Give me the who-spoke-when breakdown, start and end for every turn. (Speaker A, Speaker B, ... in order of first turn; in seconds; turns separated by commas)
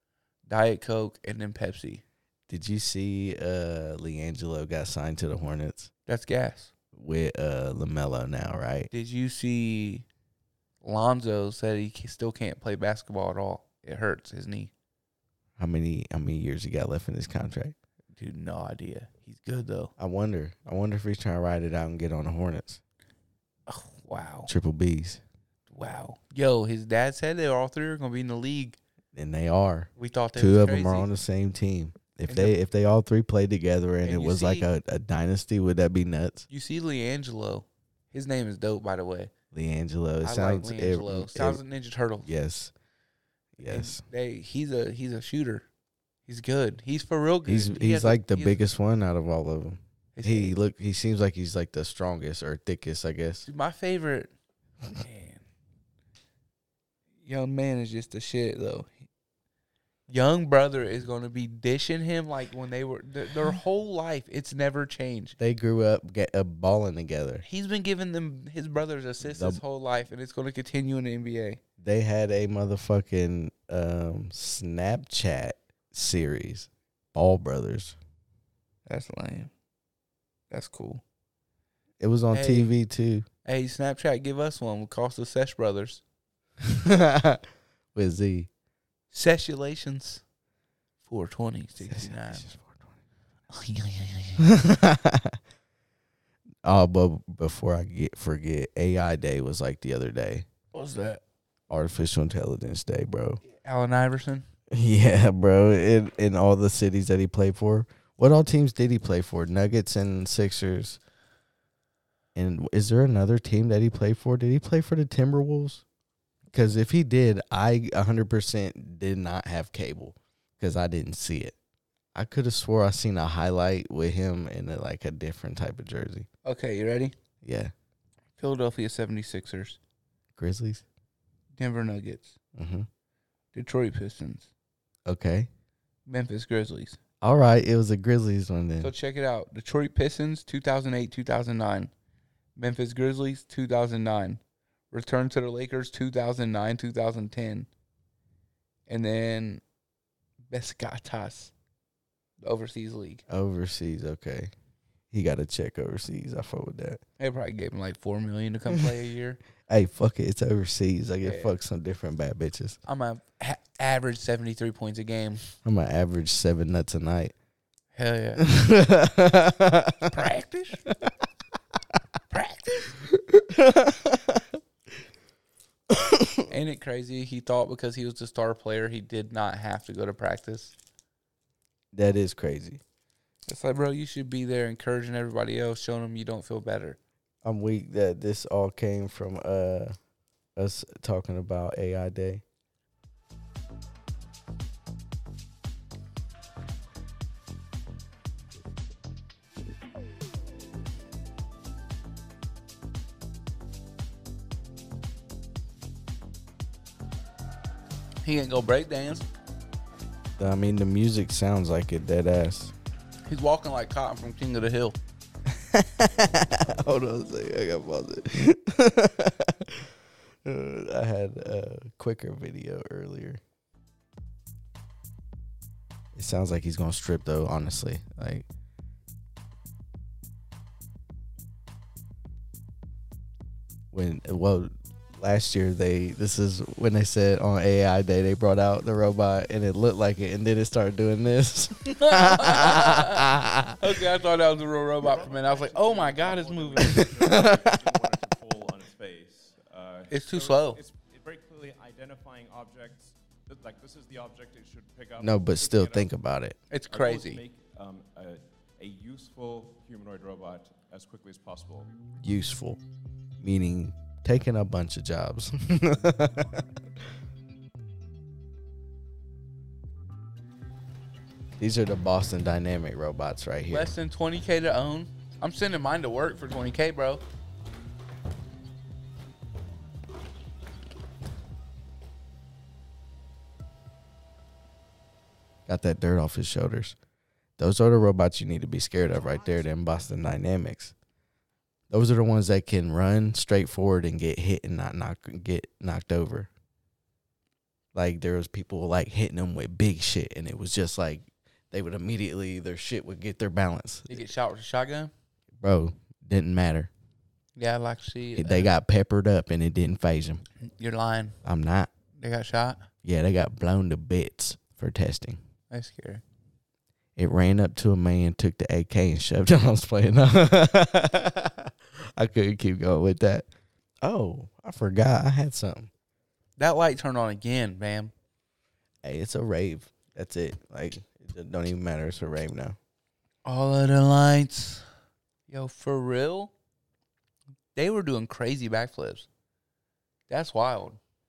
Speaker A: 0.5-2.0, Speaker B: 2.5-5.9, Speaker A: 6.1-6.7, Speaker B: 6.9-8.9, Speaker A: 8.9-10.1, Speaker A: 10.8-14.7, Speaker B: 15.6-17.7, Speaker A: 18.1-19.9, Speaker B: 20.0-22.8, Speaker A: 23.7-24.5, Speaker B: 24.5-25.2, Speaker A: 25.7-28.8, Speaker B: 29.1-36.5, Speaker A: 30.0-31.1, Speaker A: 32.3-32.5, Speaker A: 34.0-34.7, Speaker A: 36.5-39.3, Speaker B: 39.5-41.6, Speaker A: 40.2-42.3, Speaker B: 42.2-42.7, Speaker B: 43.6-44.0, Speaker A: 43.6-45.6, Speaker A: 46.3-48.6, Speaker B: 47.5-53.5, Speaker A: 50.1-50.5, Speaker A: 53.5-54.3, Speaker A: 54.9-55.4, Speaker A: 57.2-58.9, Speaker A: 60.1-65.3, Speaker B: 65.4-67.4, Speaker A: 67.4-71.6, Speaker B: 69.2-69.6, Speaker B: 71.8-78.0, Speaker A: 78.9-79.5, Speaker A: 80.5-81.0, Speaker B: 82.0-83.2, Speaker A: 82.3-82.7, Speaker A: 83.4-86.0, Speaker B: 86.6-87.4, Speaker B: 87.9-88.5, Speaker A: 89.1-90.2, Speaker A: 91.0-92.5, Speaker B: 91.8-92.9, Speaker A: 93.5-94.5, Speaker B: 94.4-95.4, Speaker B: 96.6-100.5, Speaker A: 100.7-101.2, Speaker B: 101.7-103.4, Speaker A: 103.5-104.5, Speaker B: 104.7-111.0, Speaker B: 112.3-115.8, Speaker B: 116.5-121.5, Speaker B: 122.1-126.3, Speaker A: 126.4-127.1, Speaker B: 127.4-127.7, Speaker A: 128.4-129.8, Speaker B: 130.3-130.8, Speaker A: 131.6-132.3, Speaker B: 132.6-132.9, Speaker A: 133.5-134.5, Speaker B: 135.1-135.5, Speaker A: 136.1-137.0, Speaker B: 137.2-138.9, Speaker A: 138.8-141.9, Speaker A: 142.6-144.4, Speaker A: 144.9-147.7, Speaker A: 148.9-149.6, Speaker A: 150.5-151.5, Speaker A: 152.4-153.2, Speaker B: 153.3-154.5, Speaker B: 155.1-157.0, Speaker A: 157.2-159.4, Speaker B: 159.7-162.8, Speaker A: 161.2-161.5, Speaker A: 162.9-165.4, Speaker B: 165.6-167.3, Speaker A: 167.9-168.4, Speaker B: 168.4-170.1, Speaker A: 170.1-170.8, Speaker A: 172.3-172.8, Speaker B: 173.0-174.6, Speaker B: 175.9-176.5, Speaker A: 176.5-180.7, Speaker B: 181.9-182.8, Speaker A: 183.5-187.0, Speaker B: 187.4-189.9, Speaker B: 190.6-192.4, Speaker A: 208.2-209.2, Speaker B: 210.4-212.7, Speaker A: 213.3-215.0, Speaker B: 215.5-219.9, Speaker B: 220.4-223.4, Speaker B: 226.1-228.4, Speaker B: 233.9-243.8, Speaker A: 241.9-247.1, Speaker C: 245.0-256.1, Speaker B: 246.9-247.8, Speaker A: 250.1-250.8, Speaker B: 255.2-256.6, Speaker A: 256.7-257.4, Speaker C: 256.9-261.9, Speaker B: 262.2-262.8, Speaker B: 263.4-266.6, Speaker B: 271.6-273.9, Speaker A: 273.7-277.2, Speaker B: 285.7-286.9, Speaker B: 287.6-290.9, Speaker B: 291.9-296.5, Speaker B: 297.9-304.3, Speaker A: 304.1-305.1, Speaker B: 305.6-306.9, Speaker A: 307.6-308.7, Speaker B: 308.3-310.4, Speaker A: 310.6-311.4, Speaker B: 311.4-311.9, Speaker A: 312.2-312.9, Speaker B: 313.0-315.4, Speaker A: 315.7-316.2, Speaker B: 317.2-323.5, Speaker B: 324.0-325.9, Speaker A: 326.6-328.1, Speaker B: 329.0-332.8, Speaker A: 333.4-334.8, Speaker A: 335.5-336.5, Speaker A: 337.7-339.3, Speaker A: 340.3-341.0